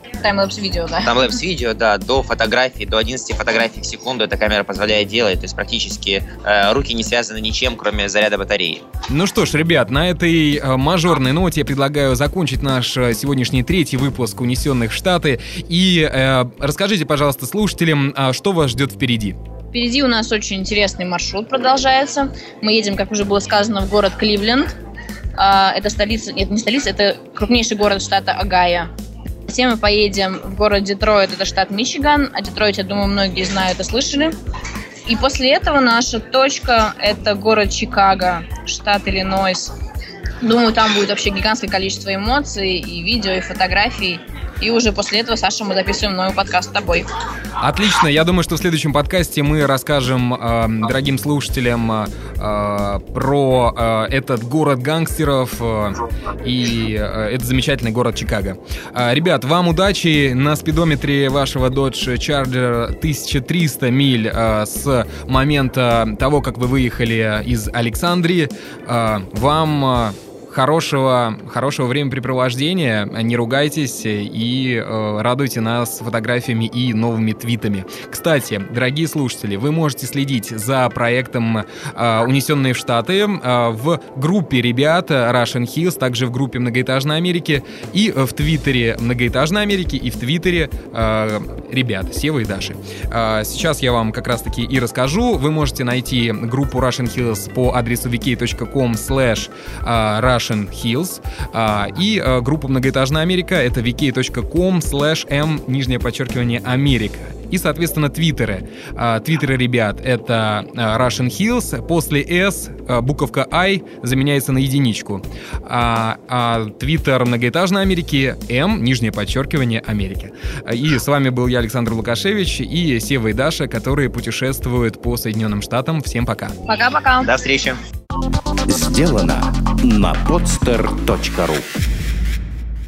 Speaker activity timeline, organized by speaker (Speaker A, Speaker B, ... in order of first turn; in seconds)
Speaker A: 0.2-1.3, 19.7-24.8, 25.4-28.9, 29.5-34.3, 35.1-39.7, 40.4-47.1, 126.7-127.3
Speaker B: 1.0-8.8, 127.2-127.8
Speaker C: 9.1-19.4, 47.6-126.6
Speaker D: 128.7-131.7